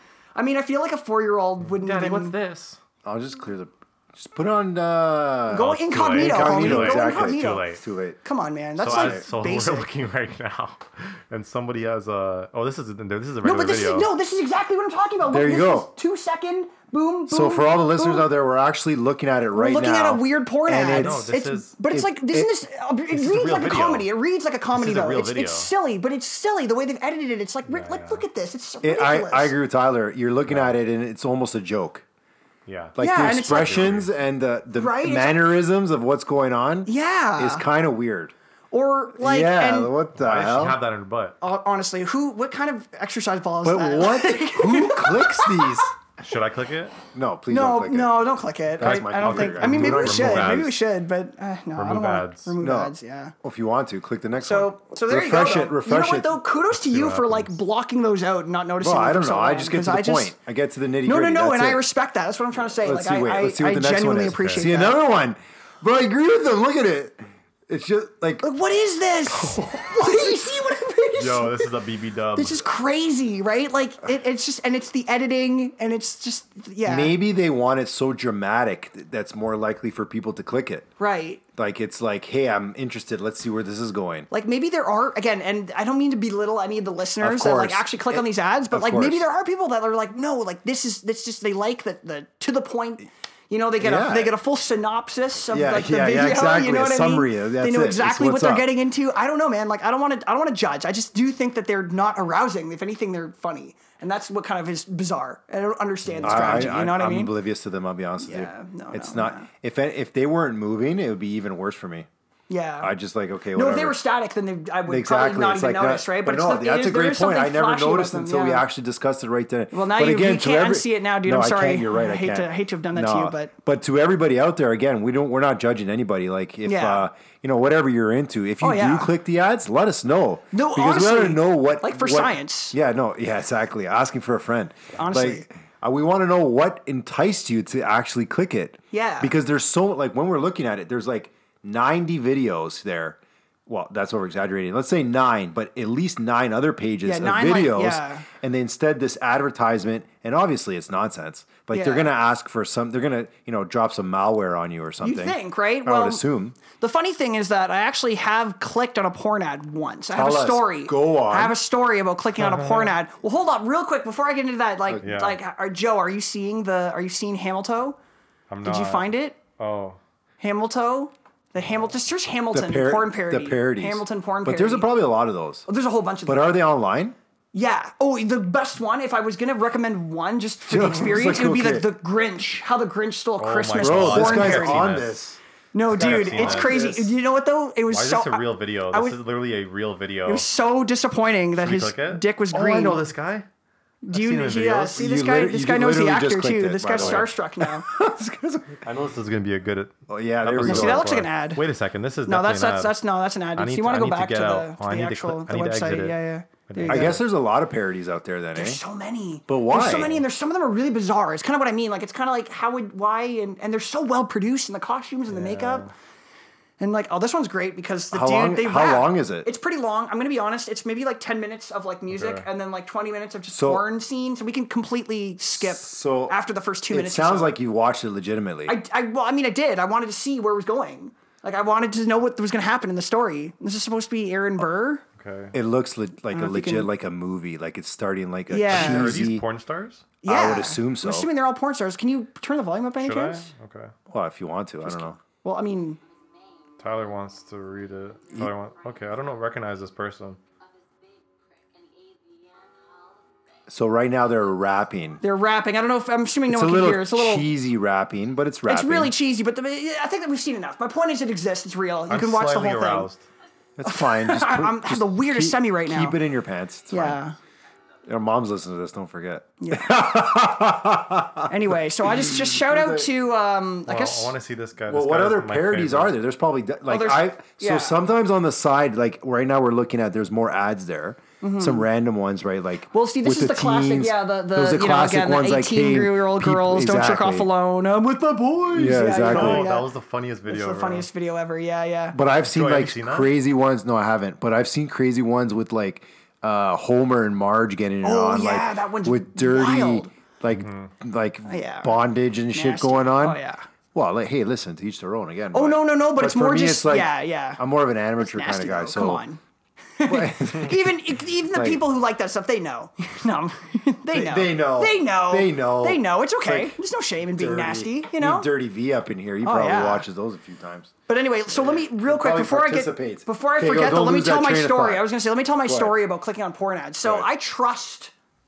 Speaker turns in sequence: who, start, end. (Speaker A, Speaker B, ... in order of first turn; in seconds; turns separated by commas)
Speaker A: 0.3-2.4, Speaker B: 1.6-2.8, Speaker C: 3.0-8.2, Speaker A: 5.5-7.7, Speaker B: 5.7-7.8, Speaker A: 8.2-9.9, Speaker B: 8.8-14.1, Speaker C: 8.9-9.2, Speaker A: 13.4-18.2, Speaker C: 15.2-15.9, Speaker C: 17.3-22.5, Speaker A: 19.5-29.5, Speaker B: 20.9-21.7, Speaker B: 23.1-24.1, Speaker B: 24.7-25.7, Speaker B: 27.6-28.2, Speaker C: 28.8-32.0, Speaker B: 30.5-30.7, Speaker B: 32.6-34.1, Speaker C: 33.0-38.3, Speaker A: 33.0-33.8, Speaker A: 34.7-35.4, Speaker A: 36.9-37.6, Speaker A: 38.7-39.9, Speaker C: 39.1-40.8, Speaker B: 40.1-41.4, Speaker A: 41.4-45.8, Speaker C: 43.6-45.9, Speaker B: 46.2-47.0, Speaker C: 47.1-48.1, Speaker A: 47.5-53.3, Speaker C: 48.8-50.7, Speaker B: 48.8-50.8, Speaker B: 51.8-52.5, Speaker C: 52.6-56.4, Speaker A: 54.4-60.3, Speaker B: 56.7-57.6, Speaker C: 58.8-61.8, Speaker A: 61.0-65.0, Speaker C: 62.8-68.4, Speaker B: 64.3-64.7, Speaker A: 68.4-71.7, Speaker B: 71.2-72.7, Speaker A: 72.3-77.2, Speaker C: 76.8-80.9, Speaker A: 81.0-81.4, Speaker C: 81.6-84.3, Speaker A: 84.3-107.3, Speaker C: 87.2-89.2, Speaker C: 93.8-94.3, Speaker C: 95.5-98.7, Speaker B: 106.1-106.7, Speaker C: 106.2-112.1, Speaker A: 108.2-109.5, Speaker A: 112.5-112.9, Speaker C: 112.8-114.0, Speaker A: 113.5-118.6, Speaker C: 114.9-156.6, Speaker A: 119.7-123.5, Speaker A: 126.6-127.0, Speaker A: 128.6-129.1, Speaker A: 130.5-132.8, Speaker A: 134.9-135.4, Speaker A: 138.9-139.3, Speaker A: 147.0-148.2, Speaker A: 151.7-152.1, Speaker A: 155.0-168.0, Speaker C: 160.1-161.6, Speaker B: 162.4-162.9, Speaker B: 165.0-165.4, Speaker B: 168.5-170.0, Speaker A: 168.6-169.4, Speaker A: 170.4-174.9, Speaker C: 172.5-175.7, Speaker A: 175.7-176.6, Speaker C: 176.2-177.2, Speaker A: 177.5-184.9, Speaker C: 180.7-181.9, Speaker B: 183.4-185.2, Speaker C: 183.8-185.4, Speaker A: 185.7-189.2, Speaker B: 185.9-186.9, Speaker C: 185.9-187.1, Speaker B: 187.9-190.4, Speaker A: 190.2-193.0, Speaker B: 191.6-193.5, Speaker A: 194.0-197.9, Speaker B: 194.1-195.0, Speaker C: 194.9-198.8, Speaker B: 196.9-197.3, Speaker B: 198.8-203.0, Speaker C: 200.1-201.1, Speaker A: 200.6-201.6, Speaker A: 202.2-207.2, Speaker B: 203.5-207.2, Speaker C: 206.9-208.8, Speaker A: 208.5-215.9, Speaker C: 209.5-210.1, Speaker B: 209.8-210.2, Speaker B: 215.3-215.9, Speaker A: 216.8-227.5, Speaker C: 218.1-219.5, Speaker B: 222.1-222.5, Speaker C: 223.5-223.8, Speaker C: 225.6-226.3, Speaker C: 226.9-228.8, Speaker A: 228.7-235.0, Speaker B: 235.2-235.5, Speaker C: 235.5-239.4, Speaker A: 236.3-236.9, Speaker A: 238.5-239.2, Speaker B: 238.6-240.1, Speaker A: 240.2-243.5, Speaker C: 240.2-241.3, Speaker B: 243.0-243.9, Speaker C: 244.1-245.2, Speaker A: 244.8-246.0, Speaker B: 246.8-250.4, Speaker C: 253.7-255.2, Speaker A: 255.2-257.4, Speaker C: 256.5-259.1, Speaker A: 258.6-263.1, Speaker B: 262.1-263.2, Speaker C: 263.8-267.2, Speaker A: 263.8-266.2, Speaker A: 266.9-267.4, Speaker C: 268.1-273.1, Speaker A: 269.6-270.0, Speaker A: 271.5-274.3, Speaker B: 273.9-276.1, Speaker C: 274.9-287.5, Speaker A: 276.9-278.0, Speaker A: 281.4-281.9, Speaker A: 282.9-289.9, Speaker C: 288.7-289.7, Speaker B: 289.2-291.1, Speaker A: 290.5-292.2, Speaker C: 292.1-303.4, Speaker B: 292.4-293.3, Speaker A: 298.0-300.1, Speaker B: 300.5-300.9, Speaker A: 301.5-302.0, Speaker A: 302.5-303.6, Speaker C: 303.9-309.2, Speaker A: 305.5-307.6, Speaker A: 308.2-309.4, Speaker A: 310.0-318.5, Speaker C: 310.1-311.0, Speaker C: 311.5-311.8, Speaker C: 314.1-316.8, Speaker C: 317.4-320.9, Speaker A: 319.4-320.1, Speaker A: 321.1-328.1, Speaker C: 321.5-325.1, Speaker C: 325.6-325.9, Speaker C: 327.0-327.3